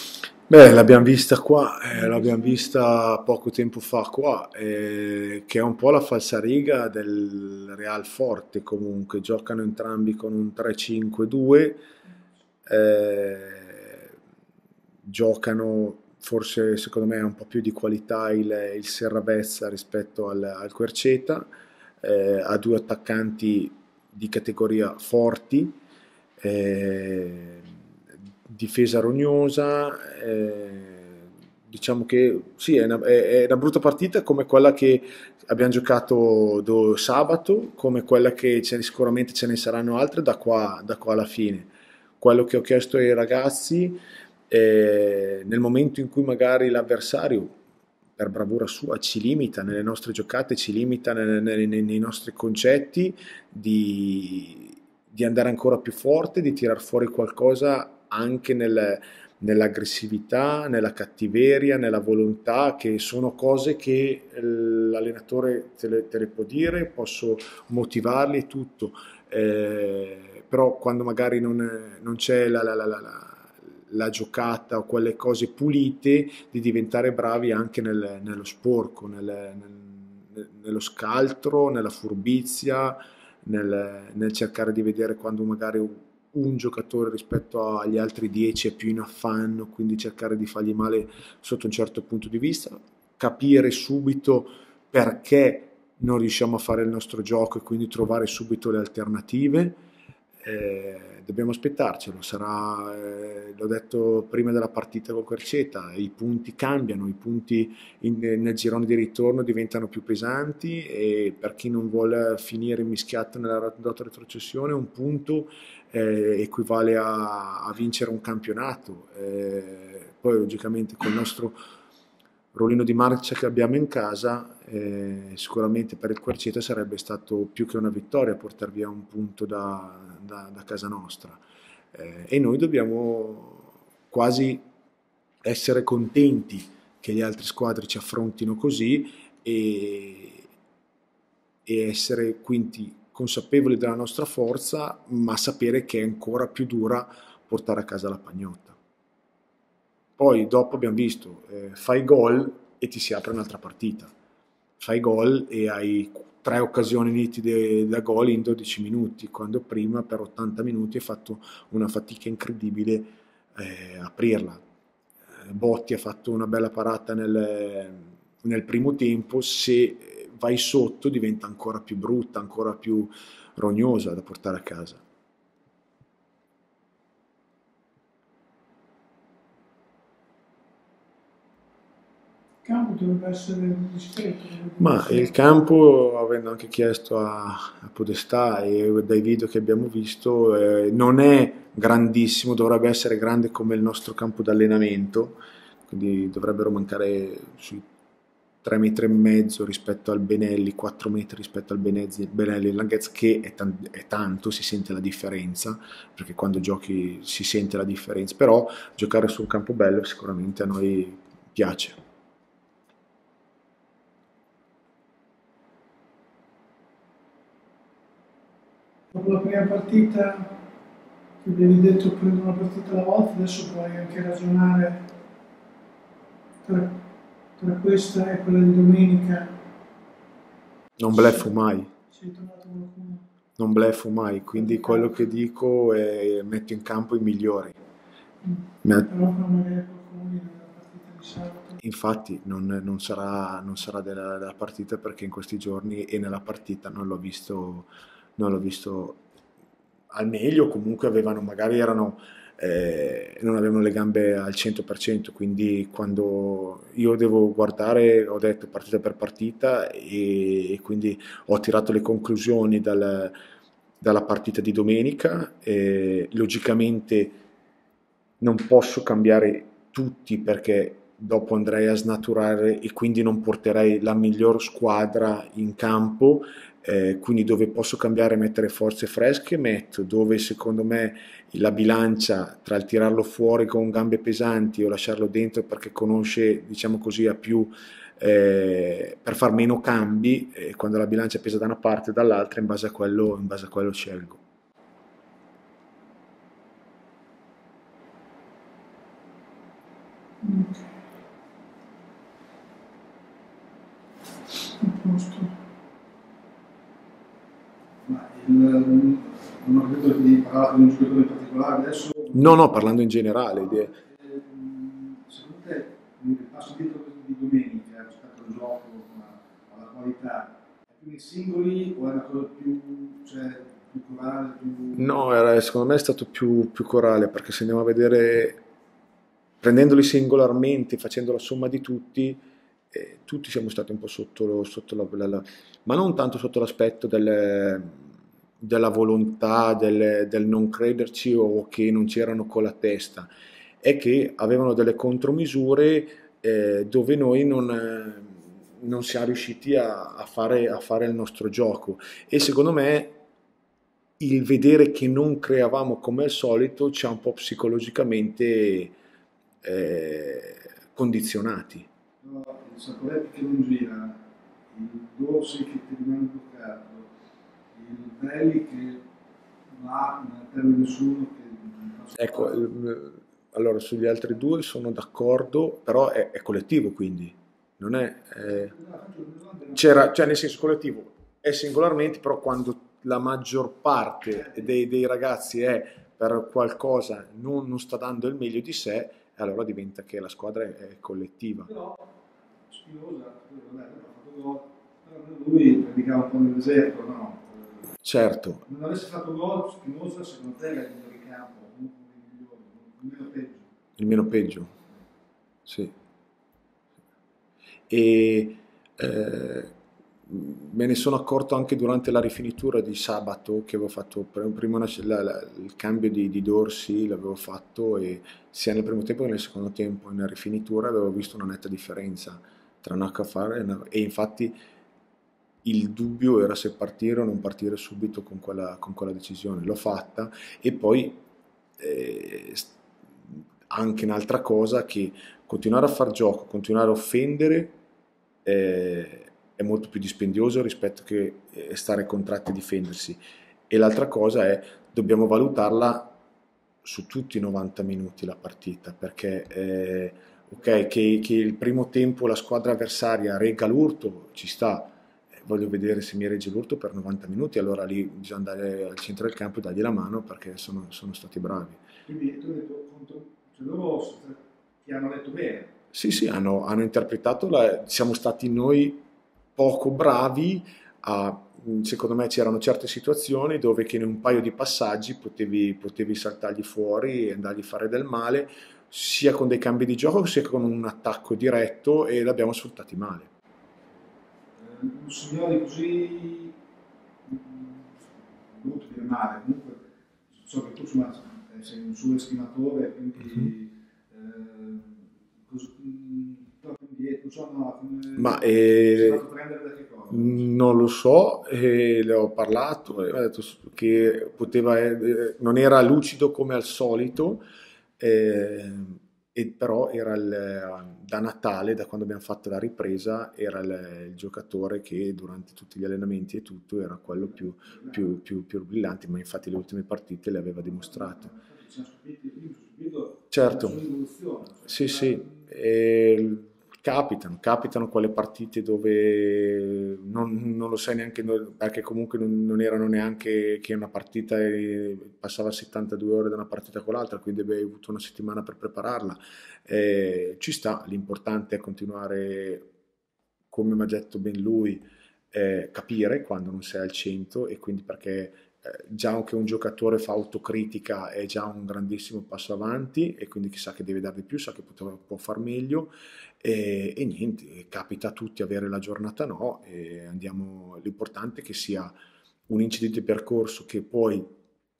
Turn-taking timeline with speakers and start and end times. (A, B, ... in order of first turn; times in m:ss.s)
0:00.5-0:11.8 A
0:01.9-0:02.5 B
0:12.6-0:14.1 A
0:15.0-0:21.5 A
0:22.0-0:25.8 A
0:26.4-0:27.7 A
0:28.4-0:47.6 A
0:48.2-1:39.8 A
1:40.4-2:01.6 A
2:02.5-2:11.4 A
2:11.9-2:14.6 A
2:15.4-2:20.5 A
2:21.6-2:28.8 A
2:30.2-2:34.1 A
2:34.8-2:44.6 A
2:45.4-2:55.0 A
3:02.6-3:05.3 B
3:04.8-3:17.8 A
3:18.6-3:32.0 A
3:39.1-3:40.5 B
3:41.4-3:45.0 B
3:46.6-3:46.9 B
3:47.6-3:49.5 B
3:51.0-3:51.9 A
3:52.1-3:53.2 B
3:53.6-3:57.8 A
3:54.6-3:55.2 B
3:58.4-4:01.8 B
3:58.8-3:59.1 A
4:01.8-4:09.2 A
4:10.1-4:23.3 A
4:24.0-4:27.4 A
4:28.4-4:54.4 A
5:00.4-5:00.9 B
5:04.8-5:05.5 B
5:08.0-5:12.7 C
5:12.3-5:14.0 A
5:13.5-5:25.2 C
5:24.9-5:28.6 A
5:29.6-5:38.0 A
5:38.6-5:43.3 A
5:43.8-5:53.2 A
5:54.2-5:59.0 A
5:59.6-6:01.9 A
6:02.2-6:07.1 C
6:07.7-6:09.0 C
6:09.7-6:12.6 C
6:12.2-6:18.7 A
6:18.4-6:20.1 C
6:19.7-6:31.7 A
6:24.4-6:24.7 C
6:31.6-6:37.9 C
6:38.0-6:38.6 A
6:38.6-6:43.7 C
6:44.0-6:44.7 A
6:45.6-6:45.9 A
6:47.9-6:49.7 A
6:50.3-7:04.5 A
7:05.6-7:11.2 A
7:11.8-7:12.7 A
7:13.3-7:17.8 A
7:18.4-7:26.2 A
7:26.8-7:41.8 A
7:42.0-7:45.7 C
7:45.9-7:49.0 A
7:49.6-8:03.3 A
8:04.6-8:06.6 C
8:07.2-8:20.4 C
8:18.2-8:19.2 A
8:20.1-8:27.4 A
8:28.0-8:41.3 A
8:37.1-8:38.1 C
8:40.6-8:45.4 C
8:43.3-8:43.8 A
8:44.6-9:02.7 A
9:03.5-9:21.9 A
9:22.5-9:24.3 A